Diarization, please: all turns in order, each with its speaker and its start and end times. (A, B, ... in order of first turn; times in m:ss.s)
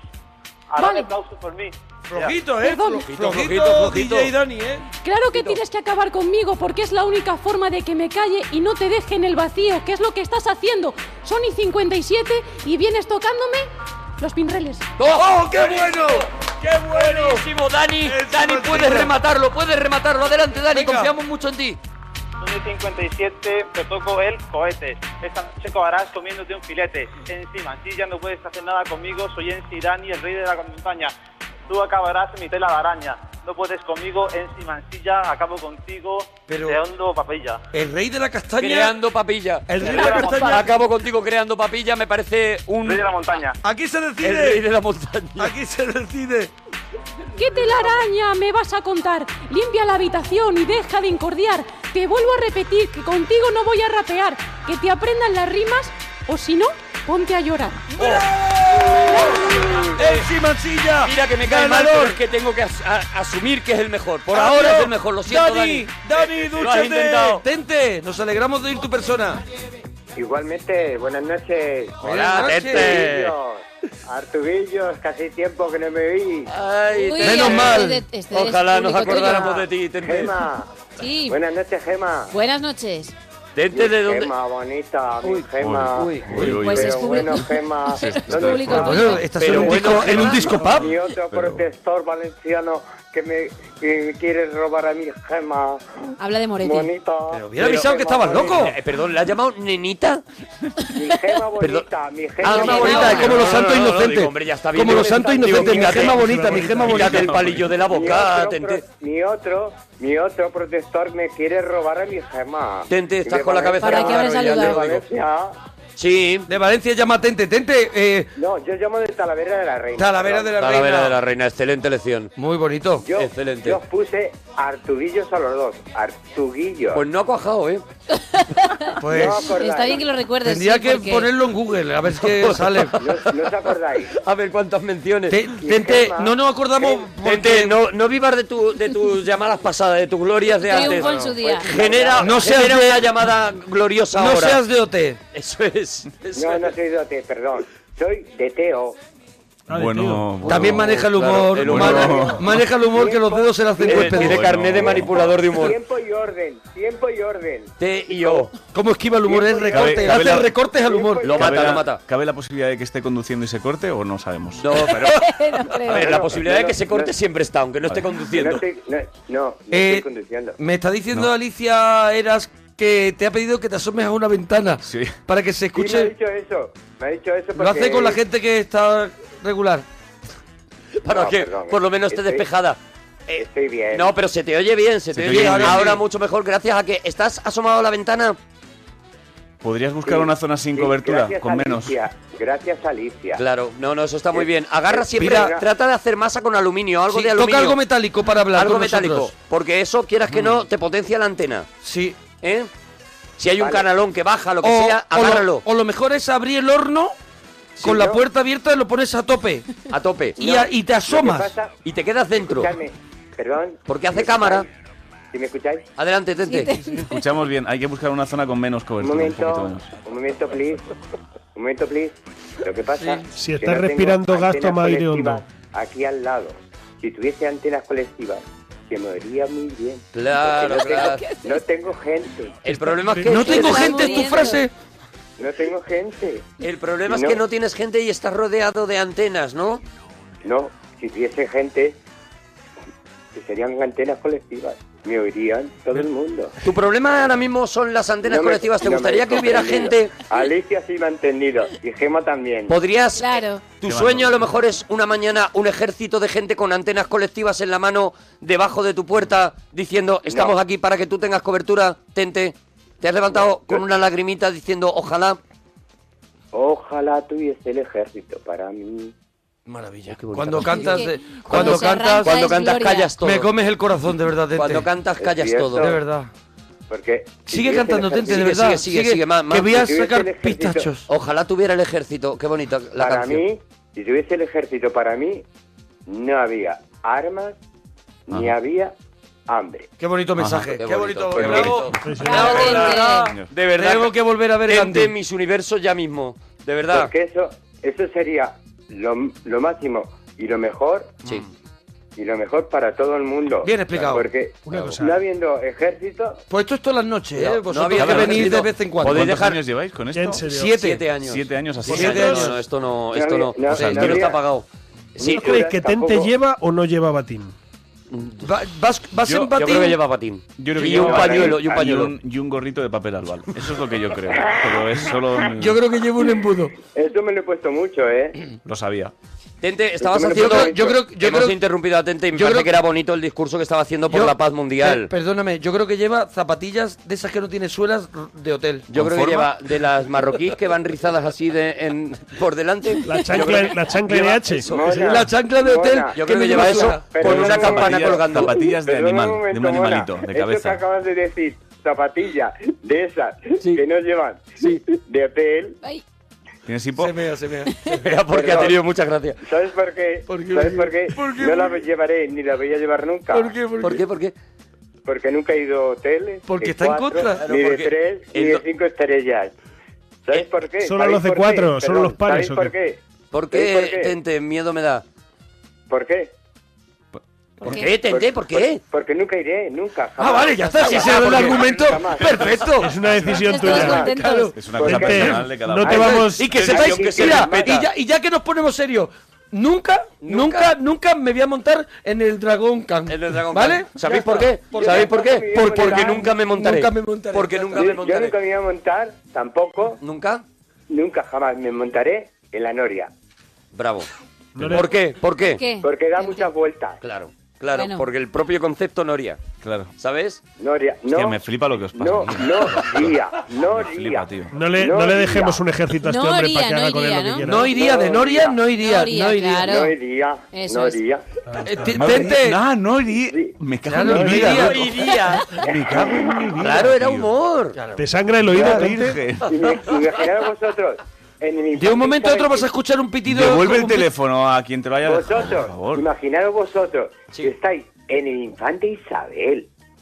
0:00.7-0:01.7 A
0:00.8-0:01.1 B
0:02.1-0:05.6 C
0:02.6-0:03.1 B
0:03.0-0:04.3 D
0:05.0-0:14.8 B
0:15.0-0:16.3 D
0:15.2-0:17.4 C
0:16.9-0:21.8 D
0:18.0-0:19.1 C
0:20.7-0:21.1 C
0:22.4-0:31.1 A
0:31.7-0:37.6 A
0:36.5-0:36.8 C
0:37.7-0:38.9 C
0:38.6-0:43.0 D
0:39.7-0:40.7 C
0:39.8-0:40.7 A
0:42.8-0:43.6 A
0:43.6-0:44.6 C
0:44.2-0:45.5 D
0:45.4-0:46.5 C
0:47.4-0:57.9 B
0:57.9-1:02.2 C
0:58.0-1:00.3 D
0:59.1-0:59.5 B
1:01.0-1:07.4 D
1:04.3-1:09.4 C
1:10.2-1:16.5 E
1:12.0-1:13.3 D
1:12.0-1:13.0 C
1:16.5-1:20.3 D
1:17.0-1:19.6 F
1:17.2-1:18.0 C
1:20.0-1:20.7 E
1:21.0-1:21.4 F
1:21.3-1:22.3 E
1:22.3-1:23.1 F
1:23.5-1:24.3 D
1:23.7-1:29.1 E
1:25.2-1:26.6 D
1:25.5-1:26.9 G
1:26.3-1:29.3 F
1:28.0-1:28.8 G
1:28.7-1:30.9 C
1:29.3-1:30.5 D
1:30.7-1:35.8 E
1:31.2-1:31.6 G
1:36.2-1:36.9 F
1:36.6-1:38.7 E
1:37.3-1:38.7 C
1:38.5-1:40.2 D
1:40.9-1:43.3 E
1:41.6-1:41.8 D
1:42.4-1:48.8 D
1:42.4-1:47.4 C
1:42.6-1:43.5 F
1:44.9-1:45.9 E
1:45.7-1:47.5 H
1:47.9-1:55.5 E
1:52.9-1:55.0 D
1:53.8-1:54.8 F
1:56.0-1:56.5 D
1:56.5-1:58.3 C
1:58.4-2:00.6 E
2:00.0-2:01.2 C
2:00.6-2:02.3 D
2:02.4-2:03.0 C
2:03.0-2:07.0 E
2:03.1-2:03.8 D
2:06.9-2:07.8 D
2:08.2-2:11.3 F
2:09.0-2:09.6 C
2:09.1-2:10.1 E
2:10.4-2:13.1 C
2:12.5-2:12.9 D
2:13.0-2:14.1 E
2:14.1-2:15.4 D
2:15.3-2:17.8 C
2:15.5-2:17.1 E
2:17.2-2:24.6 D
2:20.6-2:21.7 F
2:21.4-2:22.5 E
2:22.2-2:23.0 C
2:24.1-2:25.2 C
2:25.3-2:26.7 D
2:26.3-2:29.0 E
2:29.7-2:30.7 H
2:29.7-2:32.6 G
2:30.4-2:34.4 C
2:30.9-2:32.3 D
2:31.8-2:38.5 E
2:33.8-2:35.8 D
2:34.1-2:35.3 G
2:37.8-2:38.5 D
2:38.7-2:41.4 C
2:39.2-2:41.7 E
2:39.8-2:40.5 G
2:41.2-2:42.0 D
2:41.4-2:44.7 G
2:44.6-2:45.2 D
2:44.8-2:46.2 F
2:45.8-2:48.6 D
2:45.9-2:47.1 E
2:48.3-2:50.6 E
2:49.7-2:50.0 C
2:50.6-2:56.1 C
2:54.8-2:55.2 G
2:55.7-2:58.2 E
2:57.5-2:59.8 C
3:01.0-3:02.8 D
3:01.0-3:02.5 E
3:03.3-3:04.1 E
3:03.9-3:08.4 D
3:05.1-3:05.9 G
3:05.3-3:06.0 C
3:09.6-3:12.0 G
3:10.0-3:13.4 E
3:13.3-3:17.8 D
3:14.3-3:15.6 E
3:15.2-3:15.5 C
3:17.1-3:19.3 C
3:18.5-3:21.7 D
3:21.8-3:22.2 C
3:22.4-3:22.7 D
3:23.4-3:25.6 D
3:23.6-3:23.9 E
3:24.6-3:27.1 C
3:27.8-3:28.2 E
3:27.8-3:29.7 C
3:29.9-3:30.4 D
3:30.4-3:31.5 C
3:30.4-3:31.7 E
3:31.8-3:32.7 D
3:32.3-3:34.7 E
3:33.9-3:34.7 D
3:35.3-3:35.9 E
3:36.0-3:36.7 D
3:36.5-3:37.2 F
3:37.0-3:39.9 G
3:39.0-3:40.9 E
3:41.6-3:52.7 E
3:43.3-3:45.4 H
3:50.1-3:51.2 D
3:50.8-3:51.6 F
3:52.6-3:54.4 D
3:53.0-3:53.3 H
3:53.2-3:54.7 C
3:53.4-3:54.6 F
3:55.4-3:56.5 E
3:56.6-3:59.8 D
3:57.0-3:57.4 E
4:00.4-4:02.0 E
4:03.3-4:06.5 E
4:06.6-4:10.2 D
4:08.2-4:12.8 E
4:12.7-4:25.4 D
4:13.2-4:13.6 F
4:13.8-4:14.5 G
4:20.3-4:20.5 E
4:23.3-4:23.9 E
4:26.5-4:29.1 E
4:29.7-4:32.5 C
4:30.1-4:33.5 D
4:30.6-4:33.1 F
4:33.2-4:34.8 C
4:34.5-4:36.0 D
4:35.2-4:36.0 E
4:35.8-4:36.3 C
4:36.9-4:38.6 E
4:37.5-4:41.0 C
4:38.2-4:39.7 D
4:39.7-4:40.9 E
4:41.1-4:43.4 D
4:42.9-4:45.4 E
4:46.1-4:47.6 E
4:48.3-4:48.9 E
4:49.5-4:49.9 E
4:50.0-4:55.1 C
4:50.4-4:50.7 G
4:50.7-4:54.1 D
4:51.4-4:51.7 G
4:52.0-4:52.7 H
4:52.2-4:53.3 F
4:54.6-4:57.1 D
4:56.8-5:01.1 E
5:02.2-5:06.4 E
5:03.6-5:04.3 C
5:04.7-5:05.2 H
5:06.5-5:09.4 C
5:07.3-5:09.6 D
5:08.0-5:10.4 G
5:10.1-5:10.7 H
5:10.5-5:11.0 C
5:10.6-5:14.6 D
5:11.2-5:12.0 G
5:11.9-5:12.5 H
5:11.9-5:12.5 C
5:13.1-5:14.4 E
5:13.7-5:14.2 G
5:13.7-5:14.1 C
5:15.2-5:16.3 E
5:15.2-5:17.5 H
5:18.4-5:20.0 C
5:19.2-5:19.6 G
5:19.5-5:22.1 D
5:20.6-5:25.8 G
5:20.8-5:22.0 E
5:25.6-5:26.7 C
5:26.9-5:28.4 E
5:28.6-5:29.1 G
5:29.6-5:35.1 D
5:30.0-5:31.0 E
5:30.2-5:31.6 C
5:32.3-5:32.7 C
5:34.1-5:38.9 C
5:38.9-5:45.1 D
5:38.9-5:39.4 G
5:43.1-5:44.7 H
5:44.7-5:46.2 E
5:44.9-5:47.8 C
5:46.1-5:48.6 D
5:47.0-5:55.8 E
5:47.2-5:50.8 G
5:56.6-5:57.2 G
5:57.0-5:58.0 C
5:57.9-5:59.4 D
5:58.3-5:58.8 E
5:59.4-6:03.6 E
6:00.3-6:01.8 C
6:03.3-6:04.0 C
6:03.8-6:04.3 D
6:05.0-6:09.5 E
6:06.4-6:07.4 C
6:07.2-6:08.6 D
6:10.2-6:13.0 E
6:10.8-6:12.7 H
6:13.3-6:15.0 D
6:13.5-6:14.1 E
6:15.9-6:16.3 E
6:17.6-6:17.9 F
6:17.6-6:18.8 D
6:17.7-6:22.6 E
6:20.2-6:22.9 C
6:20.7-6:21.7 D
6:22.8-6:24.2 H
6:23.4-6:24.6 F
6:23.6-6:27.8 E
6:24.1-6:24.5 C
6:24.5-6:25.9 G
6:24.8-6:26.5 H
6:25.9-6:37.9 C
6:26.5-6:27.9 D
6:30.2-6:30.7 D
6:33.1-6:38.4 D
6:34.8-6:36.2 E
6:37.7-6:40.0 E
6:40.0-6:40.4 D
6:40.9-6:43.1 E
6:43.7-6:44.1 D
6:44.5-6:44.8 H
6:44.7-6:45.6 D
6:45.5-6:46.5 F
6:45.8-6:47.0 E
6:47.0-6:49.4 D
6:47.7-6:48.0 F
6:49.6-6:49.9 G
6:50.0-6:50.4 D
6:50.6-6:51.4 E
6:51.1-6:54.5 G
6:51.9-6:55.6 E
6:54.5-6:57.7 H
6:56.0-6:57.6 F
6:57.5-6:59.7 C
6:57.7-6:58.6 E
6:58.8-6:59.9 F
6:59.6-7:01.2 E
7:00.5-7:01.0 F
7:01.5-7:02.1 H
7:01.6-7:02.6 C
7:01.9-7:05.0 G
7:03.2-7:03.6 E
7:03.9-7:04.8 C
7:04.4-7:05.4 D
7:05.6-7:07.3 G
7:05.7-7:06.4 E
7:06.6-7:07.8 D
7:07.8-7:09.0 C
7:08.0-7:09.2 H
7:08.5-7:09.5 G
7:09.5-7:12.7 E
7:11.7-7:14.1 C
7:13.2-7:16.0 G
7:15.0-7:19.7 E